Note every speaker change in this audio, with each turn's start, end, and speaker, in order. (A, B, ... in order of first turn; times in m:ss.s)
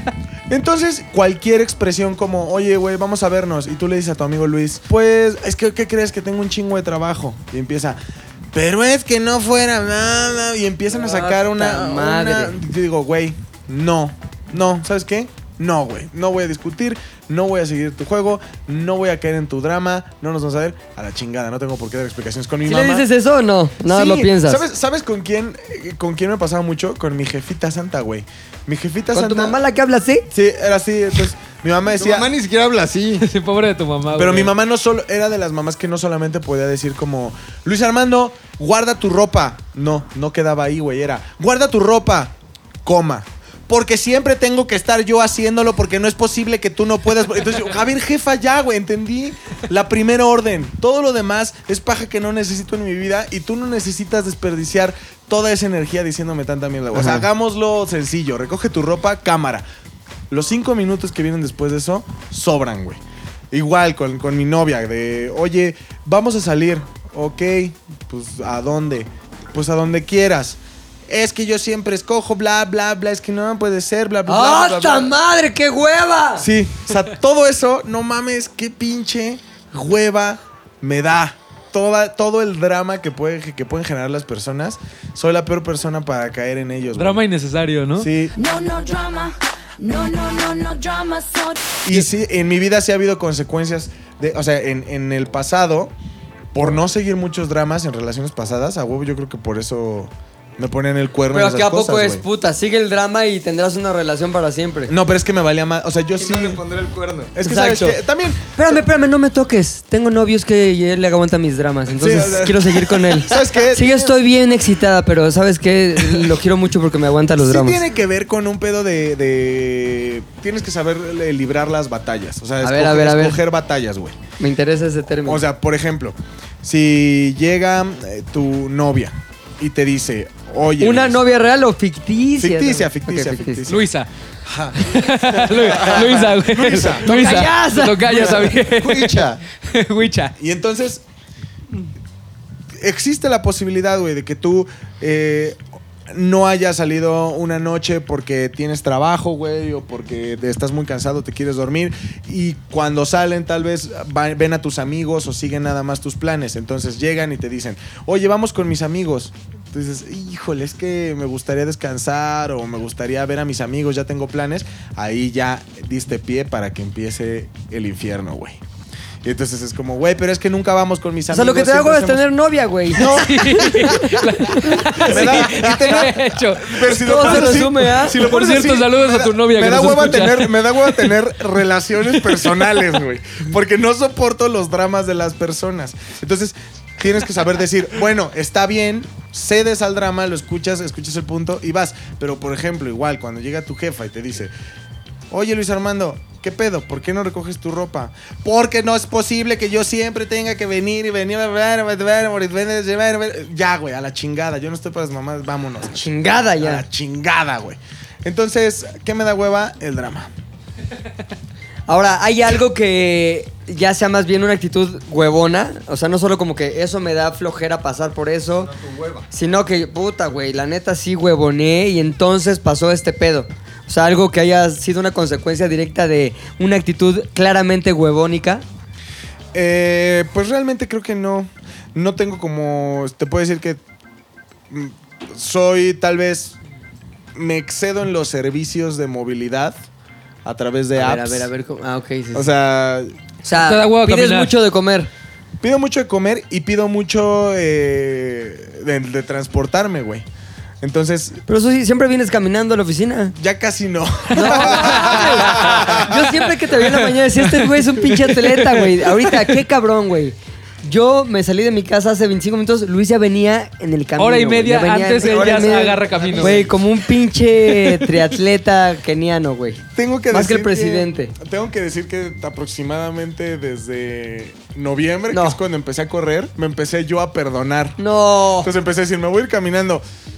0:00.5-0:08.0 A
0:08.5-0:23.1 A
0:10.9-0:12.6 B
0:22.6-0:24.6 B
0:23.9-0:29.6 A
0:29.1-0:30.2 B
0:30.3-0:32.3 A
0:32.0-0:33.2 C
0:33.2-0:34.5 D
0:34.1-0:42.3 A
0:42.8-0:59.6 A
1:00.3-1:15.1 A
1:14.3-1:16.4 B
1:16.4-1:27.2 A
1:27.0-1:28.1 D
1:28.0-1:28.3 A
1:28.3-1:31.8 E
1:31.8-1:35.9 A
1:36.5-1:42.2 A
1:41.3-1:44.9 B
1:44.9-1:46.6 A
1:46.2-1:47.3 C
1:47.3-1:48.8 A
1:47.4-1:48.0 B
1:48.5-1:57.8 B
1:52.0-1:54.0 A
1:53.3-1:54.1 C
1:56.0-1:56.3 A
1:57.4-2:04.2 A
2:02.6-2:03.4 B
2:04.4-2:05.4 B
2:05.2-2:11.2 A
2:10.8-2:13.6 B
2:12.4-2:13.9 A
2:13.7-2:14.1 D
2:14.4-2:14.8 A
2:14.8-2:20.3 D
2:15.3-2:17.5 A
2:17.0-2:18.5 B
2:18.1-2:19.4 C
2:20.4-2:21.0 A
2:22.8-2:25.6 A
2:26.1-2:48.6 A
2:49.2-2:52.3 A
2:51.3-2:53.2 B
2:52.9-3:14.5 A
2:53.0-3:01.2 D
2:57.0-2:58.2 B
3:15.3-3:30.3 A
3:25.9-3:26.8 B
3:31.9-3:38.7 B
3:38.5-3:39.3 C
3:39.3-3:48.6 B
3:49.5-3:53.8 A
3:54.7-3:56.5 A
3:57.3-3:59.8 A
4:00.4-4:01.5 A
4:01.0-4:02.5 B
4:02.3-4:03.2 A
4:03.4-4:05.1 B
4:03.5-4:04.6 D
4:05.6-4:10.2 A
4:10.8-4:11.4 A
4:11.5-4:13.3 B
4:13.4-4:16.1 A
4:14.3-4:31.3 B
4:14.4-4:16.2 D
4:16.7-4:19.5 D
4:24.2-4:26.7 D
4:25.2-4:26.7 C
4:27.7-4:28.1 D
4:30.0-4:38.0 A
4:35.3-4:35.6 B
4:38.0-4:38.7 B
4:38.6-4:40.0 A